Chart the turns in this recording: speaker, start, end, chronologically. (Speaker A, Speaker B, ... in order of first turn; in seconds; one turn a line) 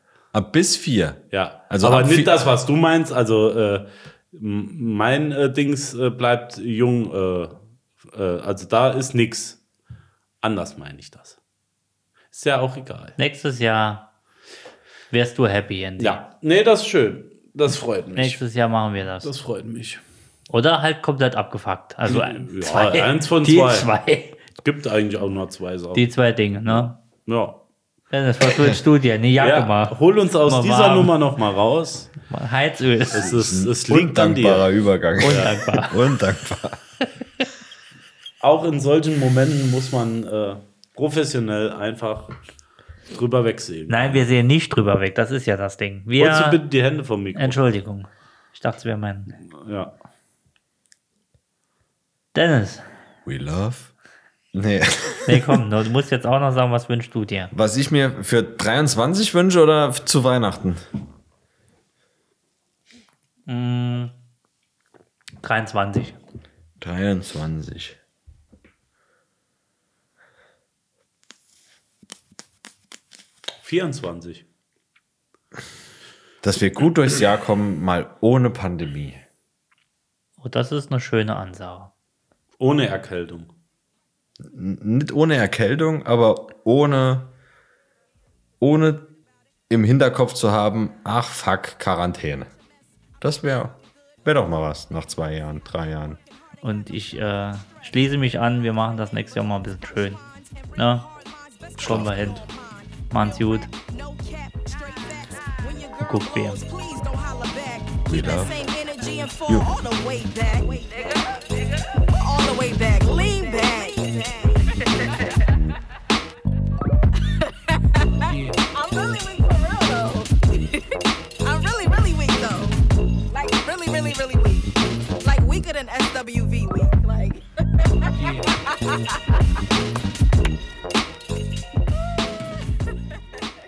Speaker A: 0.3-2.3
Speaker B: 1.3-7.5
Speaker B: 8.1-9.6
Speaker B: 10.4-11.4
Speaker B: 12.3-13.2
Speaker C: 13.2-14.1
Speaker C: 15.1-16.2
Speaker B: 16.0-18.4
Speaker C: 18.1-19.3
Speaker B: 19.2-20.0
Speaker C: 20.5-24.4
Speaker B: 22.1-23.9
Speaker B: 24.6-26.1
Speaker C: 25.9-26.9
Speaker B: 26.7-27.6
Speaker C: 28.1-31.1
Speaker B: 29.4-32.1
Speaker C: 32.3-33.3
Speaker B: 33.1-34.7
Speaker A: 33.1-36.8
Speaker C: 35.2-36.0
Speaker B: 35.2-35.5
Speaker B: 38.4-42.3
Speaker B: 43.1-44.2
Speaker C: 43.9-46.6
Speaker B: 46.2-47.6
Speaker C: 47.3-49.4
Speaker B: 49.5-49.9
Speaker C: 52.3-52.9
Speaker A: 53.2-53.9
Speaker A: 54.5-55.6
Speaker C: 55.3-57.5
Speaker A: 57.5-60.8
Speaker C: 63.5-64.1
Speaker C: 65.4-66.2
Speaker A: 66.8-68.0
Speaker B: 73.6-74.4
Speaker A: 76.4-79.2
Speaker C: 80.4-81.9
Speaker B: 82.6-83.5
Speaker A: 84.4-87.3
Speaker A: 88.6-89.1
Speaker A: 89.7-92.5
Speaker A: 93.2-96.2
Speaker C: 96.6-100.2
Speaker D: 100.1-115.5
Speaker C: 100.8-101.0
Speaker C: 101.8-102.4
Speaker A: 101.8-102.1
Speaker C: 103.1-103.7
Speaker C: 106.0-106.6
Speaker A: 108.1-108.5
Speaker D: 117.7-120.8
Speaker D: 121.4-129.2